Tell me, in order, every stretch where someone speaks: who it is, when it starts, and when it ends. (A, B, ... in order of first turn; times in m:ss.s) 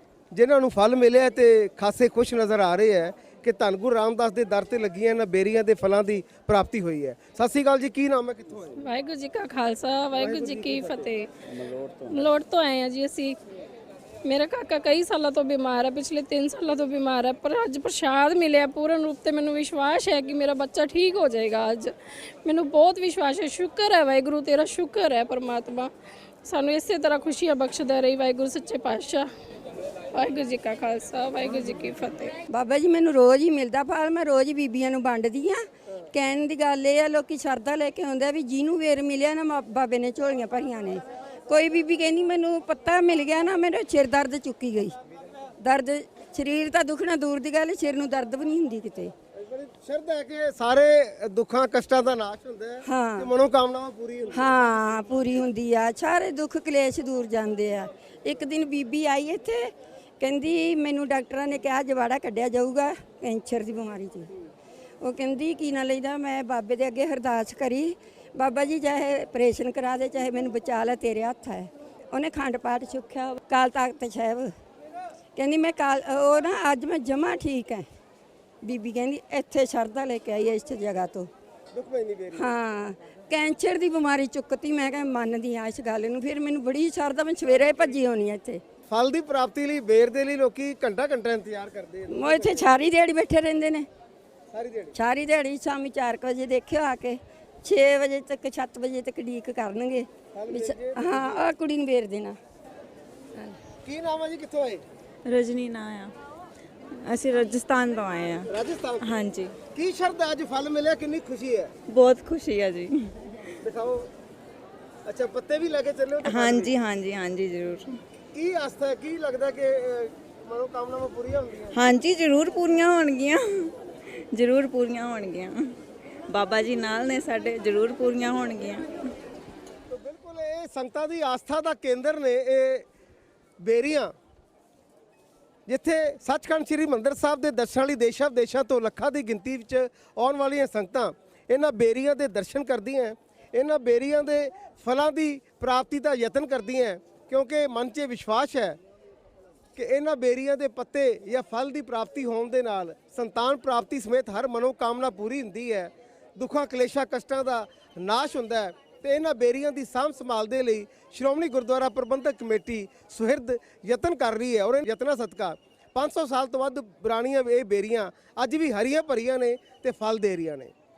0:00.3-0:08.8 A
0:08.8-0:13.4 B
0:10.2-0:10.9 A
0:14.2-0:21.9 B
0:22.4-0:25.9 B
0:26.4-0:29.3 B
0:30.1-0:32.3 B
0:32.5-0:45.0 C
0:45.6-0:49.1 C
0:49.4-0:54.5 A
0:52.8-0:53.3 C
0:54.3-1:04.3 C
1:05.0-1:14.5 C
1:15.3-1:17.8 C
1:18.6-1:21.3 C
1:21.7-1:22.4 A
1:22.3-1:28.6 C
1:28.9-1:32.7 A
1:32.1-1:33.9 C
1:34.5-1:35.0 A
1:34.9-1:42.4 C
1:40.3-1:41.4 A
1:43.8-1:44.8 A
1:45.2-1:46.1 D
1:47.0-1:49.5 D
1:48.5-1:49.1 A
1:49.7-1:51.7 A
1:51.9-1:53.1 D
1:53.6-1:54.1 A
1:55.0-1:56.7 A
1:56.2-1:57.9 D
1:58.3-2:01.8 A
2:01.7-2:05.7 D
2:06.3-2:08.9 D
2:09.9-2:12.8 A
2:13.6-2:14.1 A
2:15.7-2:28.8 A
2:29.8-2:50.7 A